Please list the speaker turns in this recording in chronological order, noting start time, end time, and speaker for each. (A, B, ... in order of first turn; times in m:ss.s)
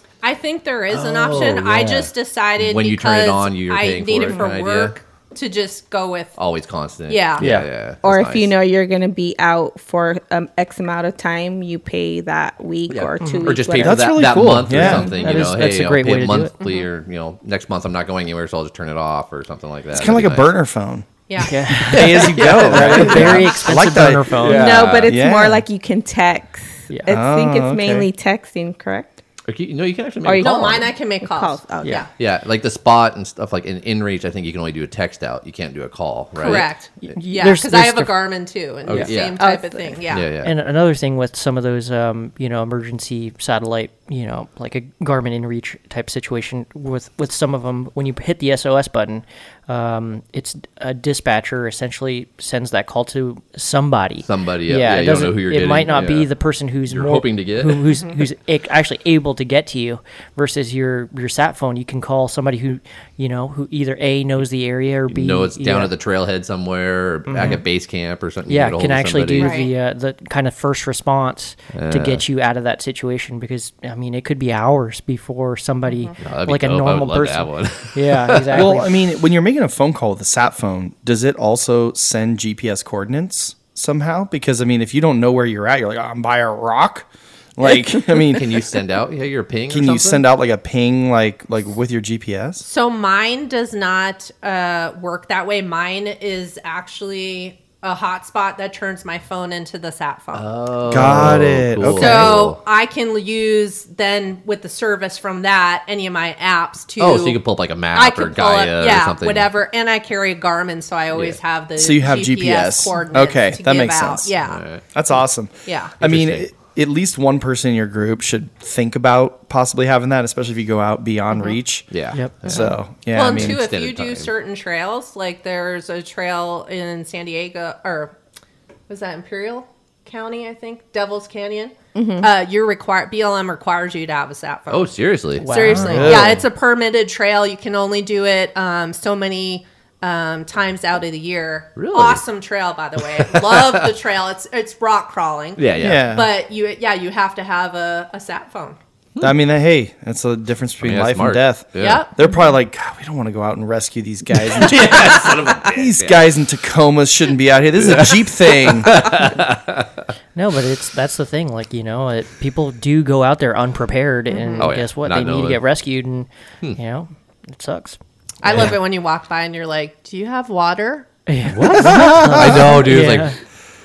0:00.2-0:06.4 A
0:00.9-0:04.9 B
0:06.4-0:08.5 B
0:07.1-0:07.4 A
0:07.4-0:07.7 C
0:08.0-0:14.0 D
0:12.9-0:20.5 B
0:13.2-0:13.6 E
0:13.8-0:15.3 C
0:14.8-0:16.5 E
0:16.6-0:16.9 A
0:19.9-0:21.1 C
0:21.3-0:22.2 A
0:21.4-0:24.7 E
0:21.7-0:25.6 C
0:21.9-0:23.5 B
0:24.4-0:25.2 B
0:24.5-0:29.1 D
0:26.9-0:27.1 E
0:27.1-0:28.1 C
0:29.5-0:30.9 B
0:30.2-0:32.0 D
0:30.4-0:32.1 A
0:32.1-0:36.7 B
0:36.4-0:40.2 A
0:36.4-0:38.1 E
0:38.9-0:39.4 B
0:39.4-0:40.0 D
0:40.1-0:40.5 B
0:40.4-1:05.9 E
0:54.2-0:56.3 B
0:56.9-0:57.9 B
1:05.1-1:09.7 B
1:07.3-1:07.6 E
1:08.5-1:18.9 E
1:09.4-1:09.7 A
1:11.7-1:12.2 B
1:15.9-1:16.2 A
1:16.2-1:18.7 B
1:18.5-1:28.6 C
1:28.2-1:30.2 B
1:29.7-1:32.6 C
1:32.6-1:41.3 A
1:40.4-1:42.6 B
1:40.9-1:42.4 C
1:41.8-1:47.4 A
1:47.0-1:49.5 B
1:47.9-1:54.6 A
1:51.8-1:54.4 C
1:54.4-1:54.8 B
1:54.9-2:03.6 C
1:55.6-1:56.0 A
1:56.0-1:56.4 B
2:01.9-2:02.7 B
2:03.1-2:08.1 A
2:03.3-2:04.3 B
2:08.9-2:28.8 A
2:11.9-2:12.3 D
2:14.7-2:16.4 B
2:15.4-2:16.1 E
2:15.7-2:16.4 C
2:21.8-2:22.2 B
2:23.1-2:23.8 B
2:25.6-2:26.1 B
2:25.8-2:26.3 C
2:29.2-2:39.1 C
2:30.8-2:32.0 B
2:31.8-2:32.1 A
2:34.5-2:36.2 B
2:34.8-2:35.2 A
2:37.8-2:40.0 B
2:40.4-2:48.0 E
2:44.3-2:44.7 A
2:44.6-2:45.6 B
2:48.4-2:51.1 A
2:51.3-2:53.4 E
2:51.5-2:53.4 B
2:51.6-2:53.1 C